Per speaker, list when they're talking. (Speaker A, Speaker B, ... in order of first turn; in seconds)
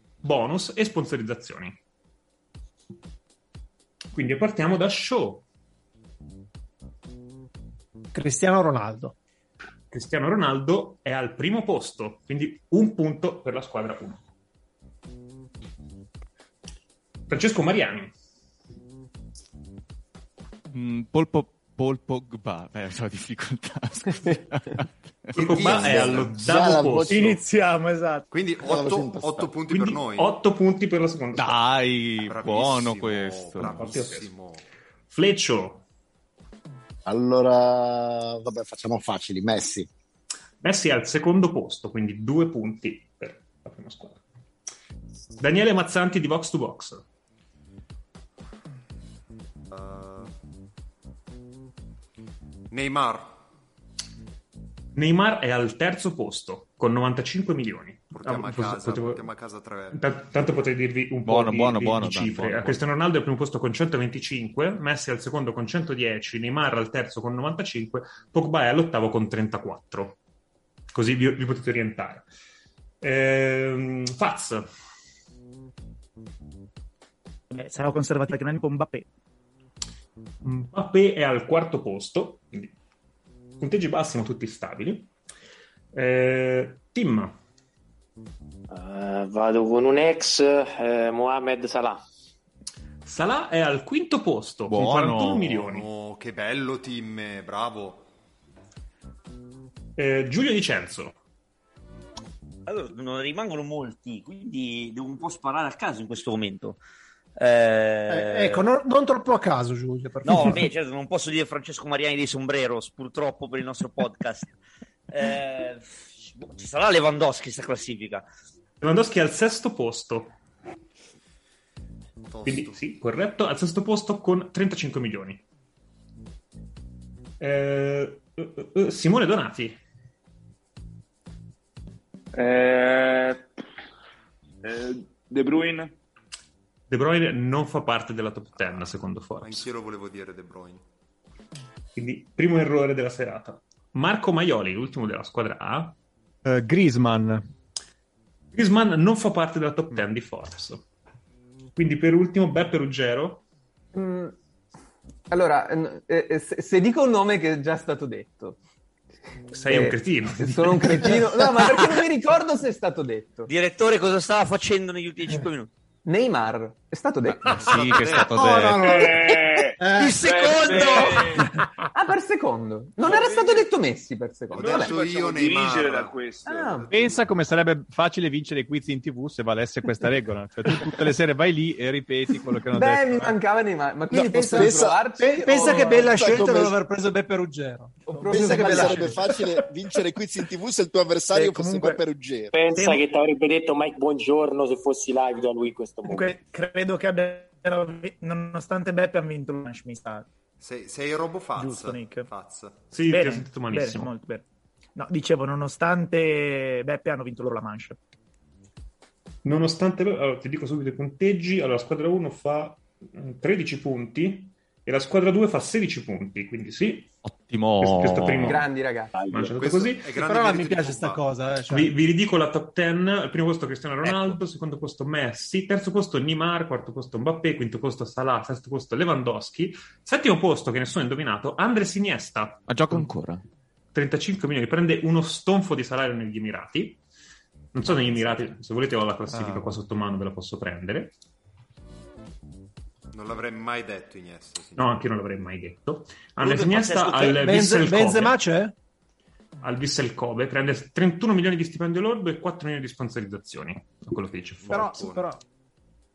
Speaker A: 0.2-1.8, 4.1-5.5, 9.9-14.2, 17.3-18.1, 25.4-27.4, 29.7-31.6, 33.6-34.3, 35.1-35.8, 40.6-44.2, 45.4-47.0, 55.0-59.3, 59.9-70.2, 70.9-72.2, 73.0-74.7, 80.4-82.7, 83.6-85.1, 85.9-87.4, 93.0-95.9, 100.0-101.2, 118.8-120.3, 122.4-125.4, 127.4-129.8, 136.9-139.7, 142.0-146.0, 148.5-150.8, 151.8-153.4, 159.5-161.2, 202.9-204.1, 209.4-217.1, 217.8-218.7, 219.3-220.1, 221.7-233.0, 233.9-237.0, 237.7-241.1, 244.8-248.4, 249.6-254.9
Speaker B: 8.1-9.2, 108.1-110.7, 168.2-170.2, 184.1-189.2, 220.2-221.9, 246.4-248.7, 254.7-255.4
Speaker C: 20.7-25.4, 31.4-33.9, 61.3-62.8, 94.7-95.6, 167.3-168.9, 217.2-218.7, 224.1-224.4, 232.7-233.4
Speaker D: 25.4-27.4, 28.6-29.5, 37.1-39.9, 184.2-185.0, 185.6-186.8, 188.3-192.6
Speaker E: 27.1-28.3, 77.5-79.1, 188.4-189.4, 191.3-192.0, 192.8-193.0, 196.1-200.3, 201.6-202.3, 203.1-204.4, 205.0-208.0
Speaker F: 28.3-30.4, 32.2-34.6, 49.7-50.3, 52.7-53.4, 58.1-60.0, 95.6-98.1, 122.3-122.8, 139.4-140.8, 174.5-176.2, 200.6-202.8, 219.5-221.3, 243.1-245.0, 254.6-255.3
Speaker G: 88.7-92.0, 192.5-196.4, 219.2-219.5
Speaker H: 102.7-106.8, 107.4-108.7, 110.2-114.6, 115.1-118.2, 163.5-165.7, 169.9-171.4
Speaker I: 132.3-133.5, 134.6-135.9, 168.8-171.5, 173.1-173.6, 174.6-177.2
Speaker J: 146.4-147.4, 176.9-183.4, 239.3-239.6
Speaker K: 153.9-154.4, 155.3-158.6, 159.7-163.5, 166.1-168.0, 171.9-175.0, 176.4-176.9, 182.7-186.2, 188.1-189.2, 218.4-219.2